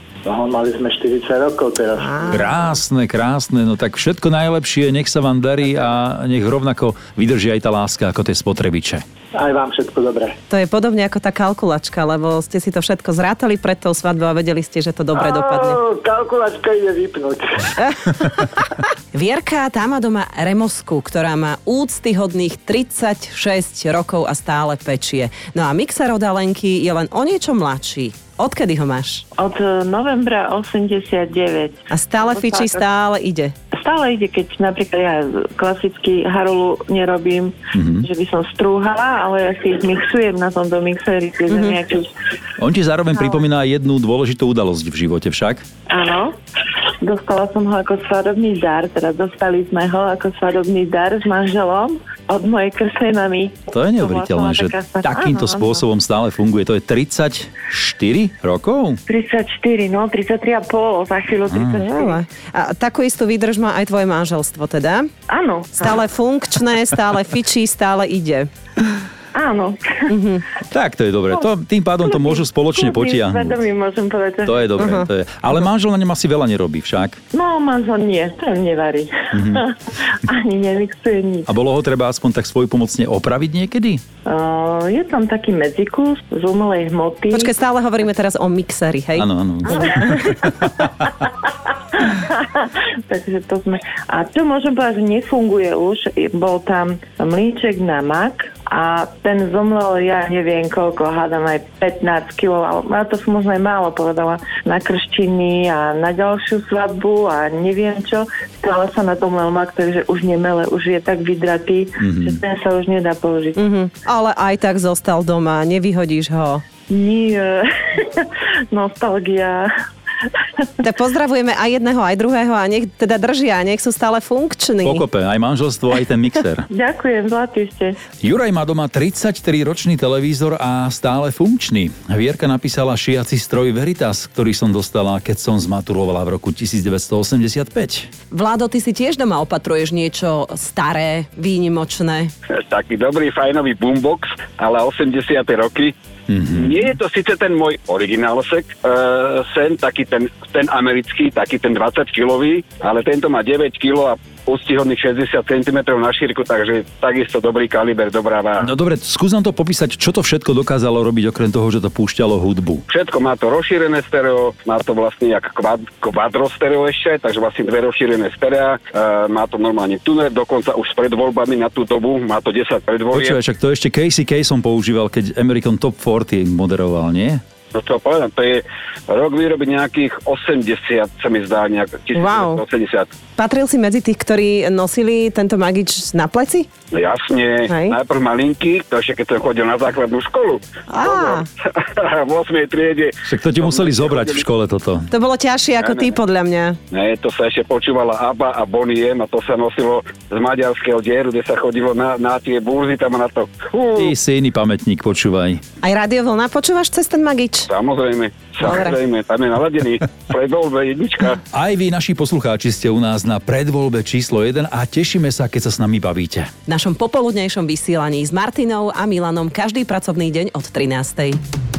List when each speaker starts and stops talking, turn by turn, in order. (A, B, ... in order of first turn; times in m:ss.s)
0:00.2-0:02.4 A
0:02.1-0:02.4 B
0:02.3-0:09.0 C
0:09.3-0:10.4 A
0:10.5-0:15.8 B
0:15.1-0:17.7 A
0:19.1-0:29.2 B
0:29.4-0:32.8 D
0:31.9-0:33.5 B
0:33.7-0:42.1 D
0:37.7-0:38.1 C
0:42.6-0:45.6 C
0:45.9-0:46.3 D
0:47.0-0:55.8 D
0:53.7-0:59.0 C
0:59.1-1:02.2 D
1:01.5-1:01.8 C
1:01.9-1:05.1 B
1:05.3-1:06.0 D
1:05.8-1:08.5 B
1:09.3-1:10.0 D
1:10.1-1:10.4 B
1:10.7-1:13.6 C
1:12.0-1:14.9 D
1:14.4-1:17.2 C
1:14.8-1:15.1 B
1:17.3-1:21.5 D
1:19.3-1:19.6 C
1:21.5-1:24.0 C
1:24.2-1:27.5 D
1:27.3-1:30.2 B
1:29.2-1:30.5 C
1:31.7-1:53.6 D
1:52.0-1:52.4 C
1:53.6-1:56.6 B
1:56.9-1:59.7 D
2:00.8-2:05.0 B
2:04.8-2:06.6 C
2:06.7-2:08.0 D
2:08.2-2:18.1 C
2:18.3-2:22.3 B
2:22.5-2:25.9 E
2:26.3-2:26.9 C
2:26.5-2:38.7 E
2:38.6-2:42.8 C
2:42.9-2:53.4 E
2:53.1-2:57.4 C
2:57.7-3:03.1 E
3:02.1-3:02.6 B
3:03.4-3:06.7 B
3:06.9-3:14.4 E
3:07.7-3:08.0 B
3:10.9-3:11.5 B
3:13.2-3:15.1 C
3:15.1-3:16.8 B
3:15.8-3:16.1 E
3:16.9-3:24.1 E
3:24.0-3:25.6 C
3:25.8-3:27.7 B
3:27.7-3:31.4 E
3:28.6-3:28.9 B
3:31.5-3:36.5 C
3:36.7-3:41.4 B